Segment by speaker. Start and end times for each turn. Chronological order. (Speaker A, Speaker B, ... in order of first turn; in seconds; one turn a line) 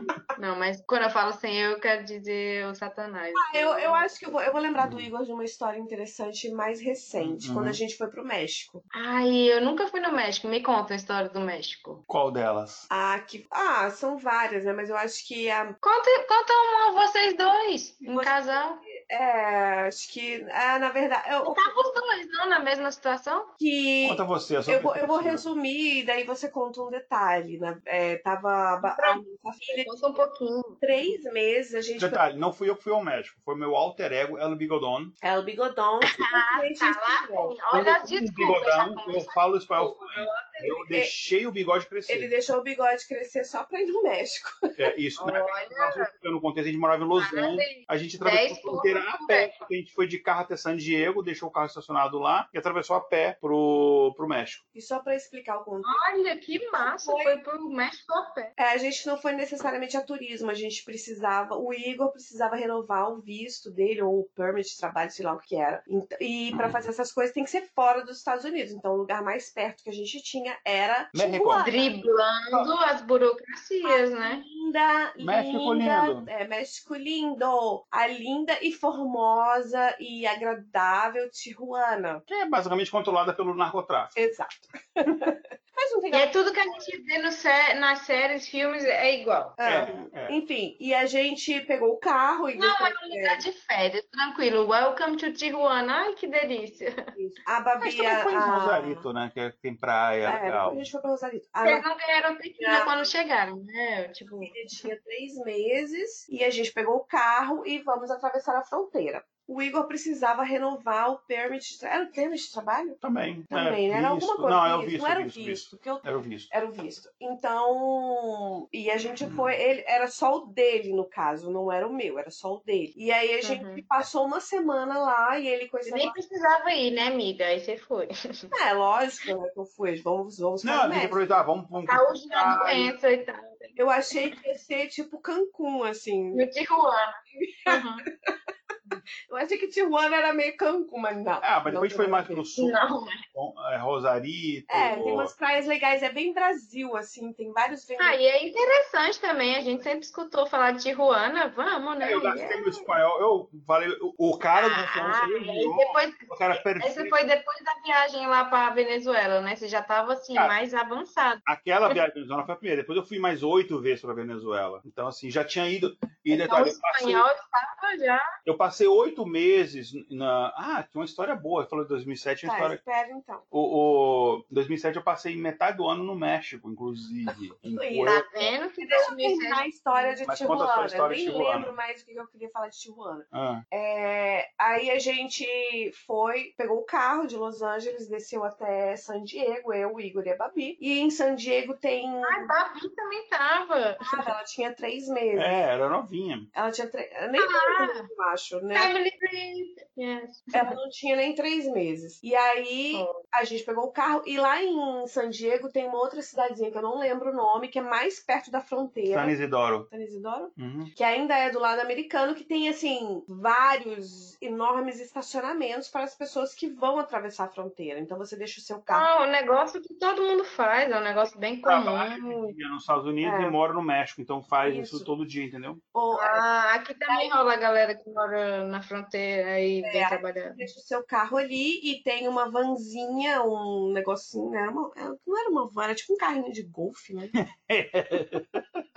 Speaker A: 0.3-4.1
Speaker B: 3.3-8.8
Speaker C: 4.8-5.1
Speaker C: 7.2-7.8
Speaker A: 8.9-12.0
Speaker C: 12.1-12.9
Speaker B: 12.9-15.8
Speaker A: 15.8-18.8
Speaker B: 18.0-21.6
Speaker A: 21.4-23.5
Speaker B: 23.6-30.2
Speaker C: 24.0-25.4
Speaker A: 28.8-30.8
Speaker B: 30.8-32.2
Speaker C: 32.0-35.1
Speaker B: 35.2-37.5
Speaker A: 36.1-40.9
Speaker C: 37.7-42.3
Speaker B: 42.1-44.8
Speaker C: 44.8-54.6
Speaker A: 45.2-46.1
Speaker A: 47.1-49.7
Speaker B: 54.7-56.0
Speaker A: 55.8-58.5
Speaker B: 56.7-57.4
Speaker B: 58.6-72.0
Speaker C: 71.1-71.7
Speaker A: 71.6-74.5
Speaker B: 73.8-82.2
Speaker C: 75.2-76.3
Speaker C: 82.3-84.2
Speaker B: 84.2-87.0
Speaker A: 86.1-89.6
Speaker B: 89.6-93.4
Speaker C: 89.6-90.3
Speaker A: 92.5-97.1
Speaker B: 97.1-99.0
Speaker C: 97.8-100.8
Speaker B: 100.2-101.8
Speaker A: 101.6-104.6
Speaker B: 102.6-102.9
Speaker B: 104.3-113.0
Speaker C: 113.0-116.5
Speaker B: 113.5-126.2
Speaker A: 123.4-123.8
Speaker A: 125.8-128.1
Speaker B: 128.5-131.4
Speaker C: 130.6-132.9
Speaker A: 131.8-134.3
Speaker B: 133.8-136.4
Speaker A: 136.3-138.1
Speaker B: 137.3-138.4
Speaker B: 139.3-142.5
Speaker C: 141.4-145.3
Speaker A: 142.6-143.2
Speaker B: 144.7-148.2
Speaker A: 148.0-152.6
Speaker C: 152.0-157.1
Speaker A: 154.5-162.0
Speaker C: 161.4-167.2
Speaker A: 166.3-168.3
Speaker C: 168.4-172.8
Speaker B: 172.4-173.4
Speaker C: 173.5-178.2
Speaker B: 177.3-192.5
Speaker A: 178.1-180.2
Speaker C: 180.2-181.7
Speaker C: 183.3-183.6
Speaker A: 192.2-194.3
Speaker B: 194.0-195.6
Speaker C: 195.3-196.5
Speaker B: 196.5-198.9
Speaker A: 197.4-198.1
Speaker A: 198.7-200.8
Speaker B: 200.5-209.3
Speaker A: 202.9-203.2
Speaker C: 209.1-209.9
Speaker B: 209.9-219.1
Speaker C: 210.6-210.9
Speaker A: 218.9-222.6
Speaker C: 221.6-225.8
Speaker B: 223.2-223.6
Speaker B: 224.6-225.1
Speaker B: 225.9-226.4
Speaker A: 226.1-230.6
Speaker B: 229.8-237.3
Speaker C: 237.4-238.6